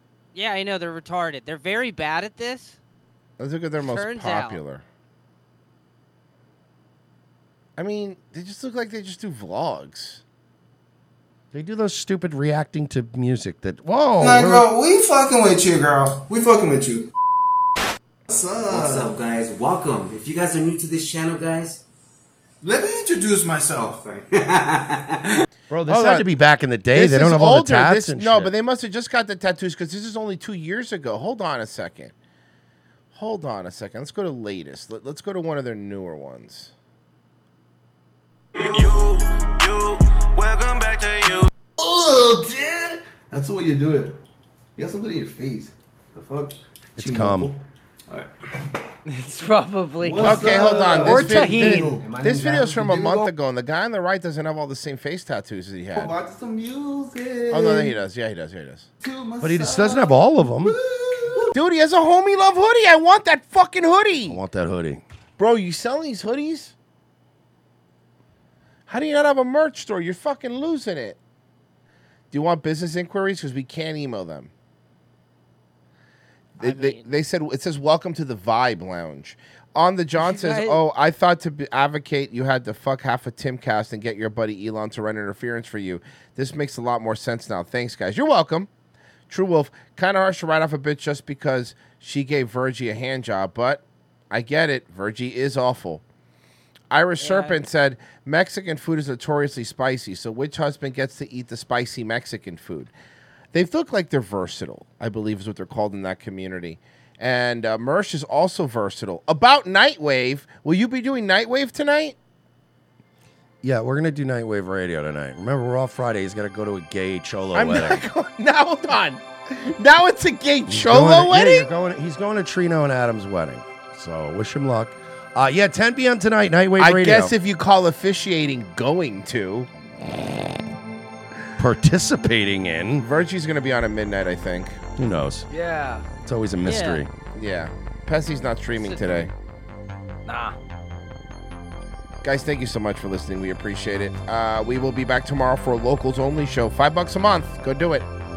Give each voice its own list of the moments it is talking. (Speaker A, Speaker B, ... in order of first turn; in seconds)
Speaker A: 0.3-2.8, 3.8-4.6, 76.6-77.0, 80.2-80.8, 97.2-97.6, 136.6-137.0, 138.8-139.3
Speaker B: 3.4-4.8, 7.8-10.2, 25.8-26.3, 26.9-32.1, 33.1-36.7, 50.2-56.1, 57.5-58.9, 61.5-64.4, 65.4-66.7, 68.9-71.2, 72.3-74.5, 76.6-88.7, 89.3-96.0, 96.9-102.9, 103.5-112.1, 117.5-121.7, 126.8-129.7, 133.0-134.8, 137.3-139.3, 142.2-148.1
Speaker C: 11.5-14.7, 25.7-28.5, 47.0-47.6, 59.4-60.8, 64.3-65.0, 113.6-118.0, 120.7-127.3, 131.6-133.1, 135.0-135.4, 136.2-137.1
Speaker D: 15.1-16.0, 18.7-18.9, 41.8-44.1, 44.8-47.5, 50.0-53.2, 55.9-57.9, 59.0-61.5
Speaker E: 18.6-21.8, 24.4-24.9
Speaker F: 49.1-52.0, 135.5-136.1, 140.3-140.5